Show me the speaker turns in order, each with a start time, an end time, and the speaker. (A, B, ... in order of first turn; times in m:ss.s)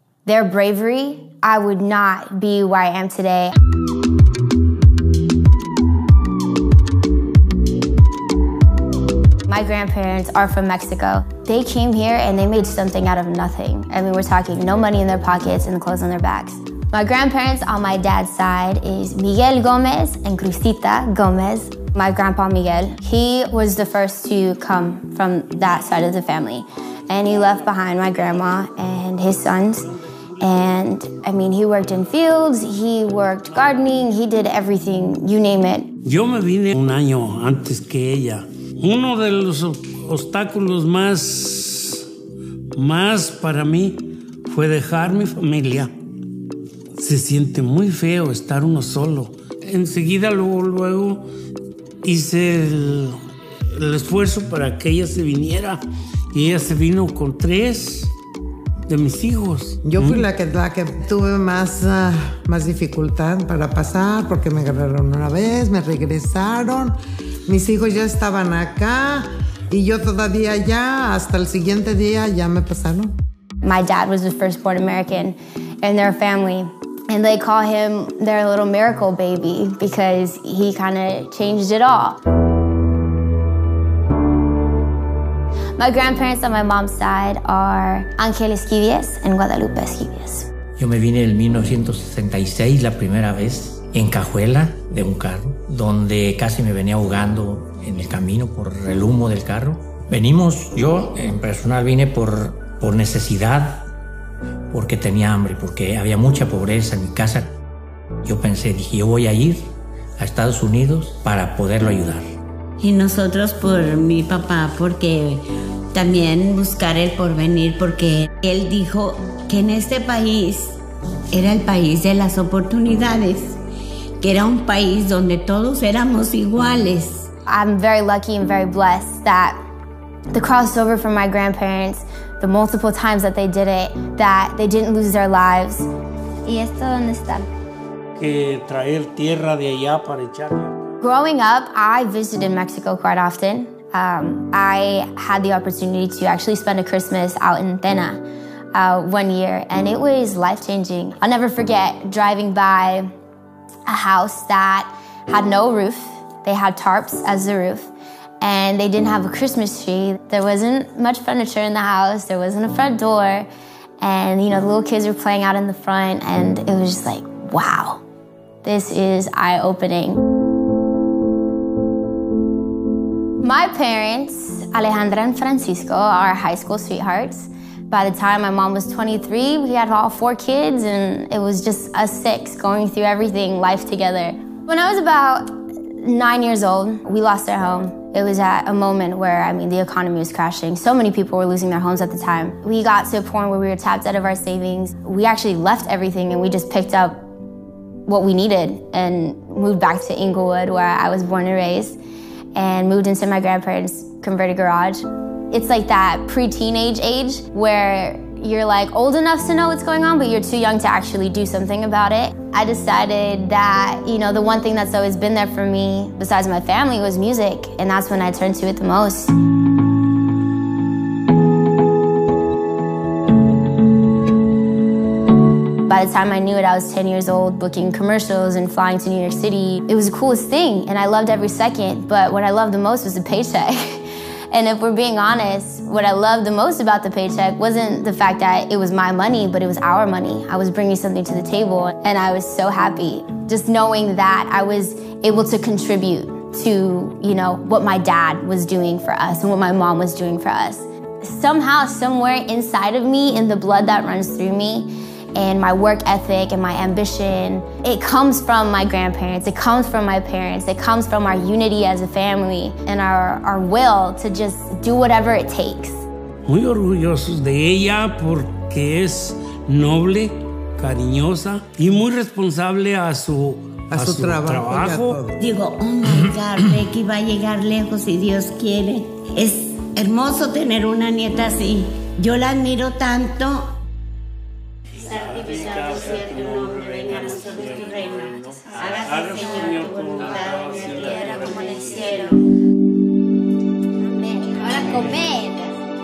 0:00.2-0:03.5 A
0:09.5-0:29.9 A
0:30.4-0:35.9 A
0:36.0-0:42.1 B
0:42.8-0:45.9 B
0:47.0-0:51.2 B
0:52.0-0:55.8 B
0:56.3-0:58.1 B
0:58.9-1:00.2 B
0:59.8-1:07.0 C
1:07.5-1:13.1 C
1:13.6-1:22.2 A
1:25.8-1:30.5 A
1:30.8-1:43.8 D
1:44.7-1:47.6 D
1:48.2-1:52.3 D
1:52.8-2:00.8 E
2:01.3-2:03.6 E
2:04.2-2:07.3 E
2:07.5-2:09.6 A
2:10.3-2:15.9 A
2:16.4-2:17.5 A
2:18.2-2:20.8 B
2:21.0-2:28.2 A
2:28.7-2:33.1 A
2:33.9-2:43.5 A
2:44.0-2:48.0 A
2:48.6-2:50.2 A
2:53.4-3:17.2 A
3:18.1-3:22.0 A
3:22.5-3:39.3 A
3:45.9-4:26.0 A
4:26.4-4:35.2 B
4:33.9-4:35.4 C
4:35.4-4:43.7 E
4:45.0-4:52.4 B
4:45.4-4:50.9 E
4:51.1-4:52.1 A
4:54.1-4:55.7 A